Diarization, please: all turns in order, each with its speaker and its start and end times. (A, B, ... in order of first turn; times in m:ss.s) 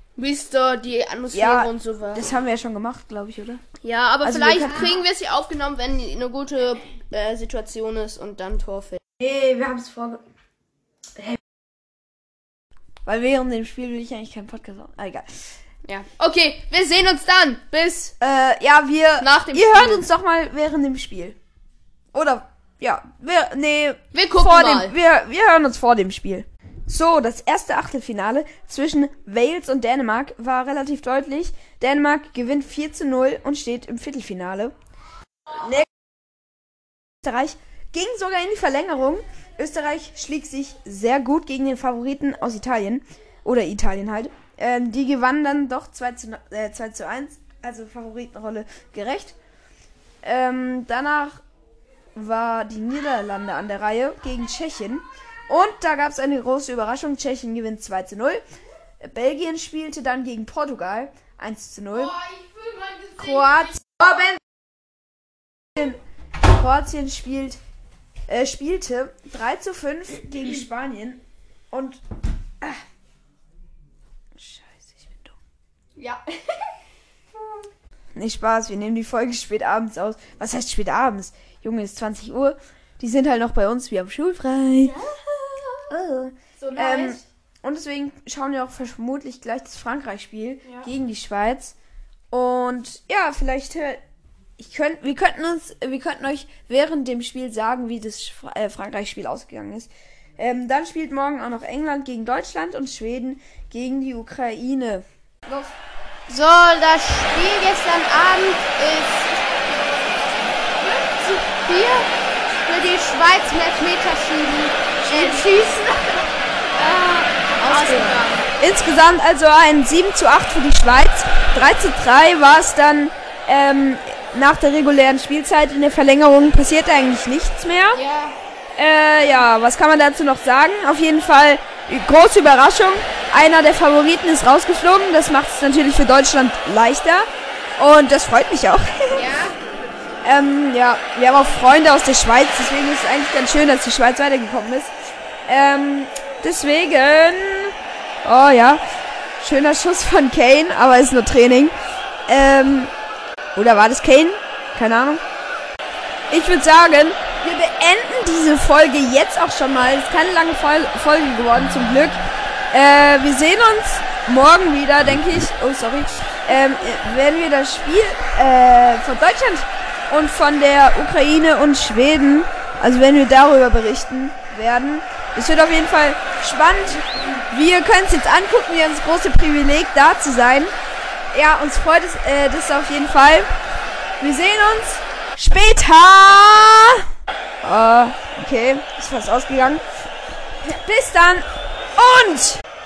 0:00.2-0:02.3 A
0:01.3-0:03.6 B
0:03.8-0:09.0 A
0:04.2-0:04.9 B
0:09.2-0:10.2 B
0:13.0-0:15.5 B
0:15.8-0:18.1 A
0:18.2-0:21.4 B
0:19.2-0:20.1 A
0:22.1-0:34.7 B
0:24.1-0:24.9 A
0:35.5-0:35.8 B
0:37.2-0:49.3 B
0:50.2-0:51.4 B
0:52.2-0:58.4 B
0:59.0-1:02.2 B
1:02.2-1:03.2 A
1:03.2-1:04.4 B
1:05.7-1:07.6 B
1:08.3-1:12.0 B
1:14.3-1:15.4 B
1:18.1-1:25.0 B
1:25.9-1:31.7 B
1:26.6-1:27.2 A
1:32.3-1:34.0 B
1:34.6-1:45.7 B
1:46.3-1:49.1 C
1:46.5-1:49.2 A
1:50.8-1:51.9 A
1:51.7-1:52.0 C
1:52.7-1:56.2 C
1:55.0-1:55.7 A
1:55.1-1:55.5 B
1:56.8-1:58.5 A
1:57.6-2:08.0 B
1:57.6-1:58.1 C
2:07.9-2:08.3 A
2:08.8-2:17.2 B
2:17.8-2:19.3 B
2:19.1-2:19.5 A
2:20.2-2:24.9 B
2:25.5-2:28.8 B
2:29.4-2:31.7 B
2:32.3-2:32.9 B
2:33.5-2:35.2 B
2:36.3-2:42.2 B
2:42.7-3:00.7 B
3:01.3-3:03.5 B
3:04.2-3:07.0 B
3:07.6-3:09.8 B
3:10.6-3:11.4 B
3:12.0-3:12.6 B